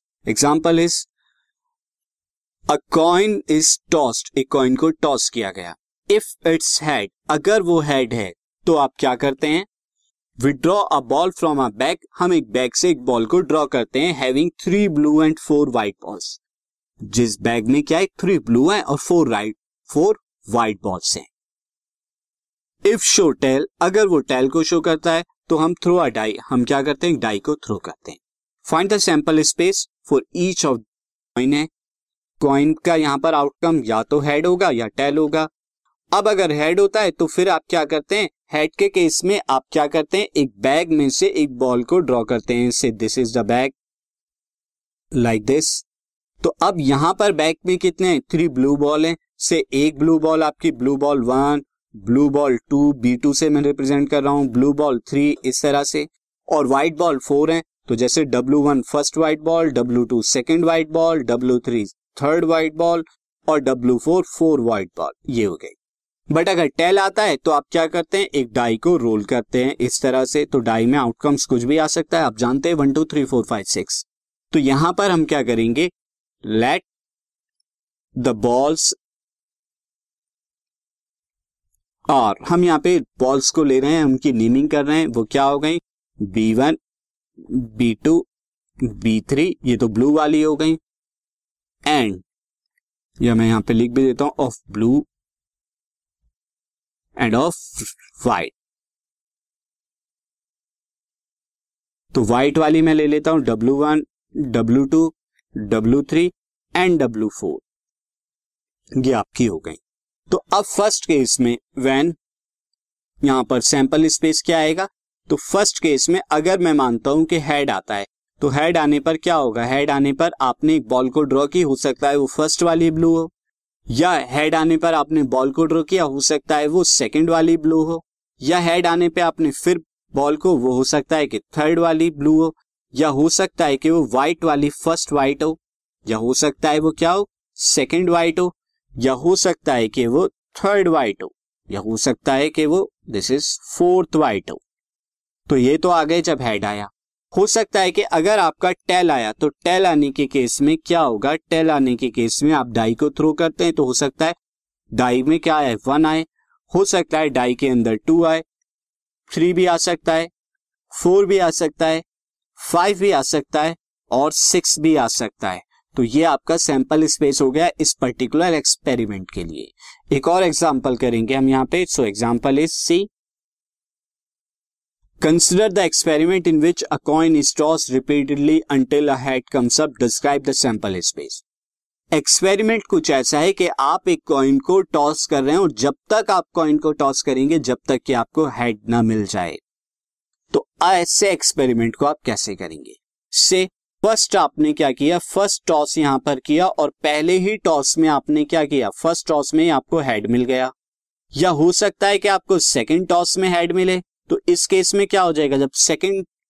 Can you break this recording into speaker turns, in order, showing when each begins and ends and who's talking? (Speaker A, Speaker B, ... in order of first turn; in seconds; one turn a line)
Speaker A: 0.2-1.1
Speaker A: 2.7-9.7
Speaker A: 10.4-16.4
Speaker A: 17.0-21.3
Speaker A: 22.8-30.8
Speaker A: 31.4-31.7
Speaker A: 32.4-35.5
Speaker A: 36.1-43.7
Speaker A: 45.1-45.8
Speaker A: 46.4-65.8
Speaker A: 66.3-75.9
Speaker A: 76.4-76.8
Speaker A: 78.2-79.0
Speaker A: 82.1-86.8
Speaker A: 87.5-88.2
Speaker A: 88.8-90.8
Speaker A: 91.8-92.2
Speaker A: 93.2-95.1
Speaker A: 97.2-98.5
Speaker A: 102.1-107.6
Speaker A: 109.0-112.2
Speaker A: 113.2-123.3
Speaker A: 123.9-144.6
Speaker A: 145.5-154.3
Speaker A: 154.9-158.4
Speaker A: 159.3-160.3
Speaker A: 160.9-162.0
Speaker A: 162.6-173.1
Speaker A: 175.2-181.4
Speaker A: 182.1-189.6
Speaker A: 190.5-200.7
Speaker A: 201.3-206.3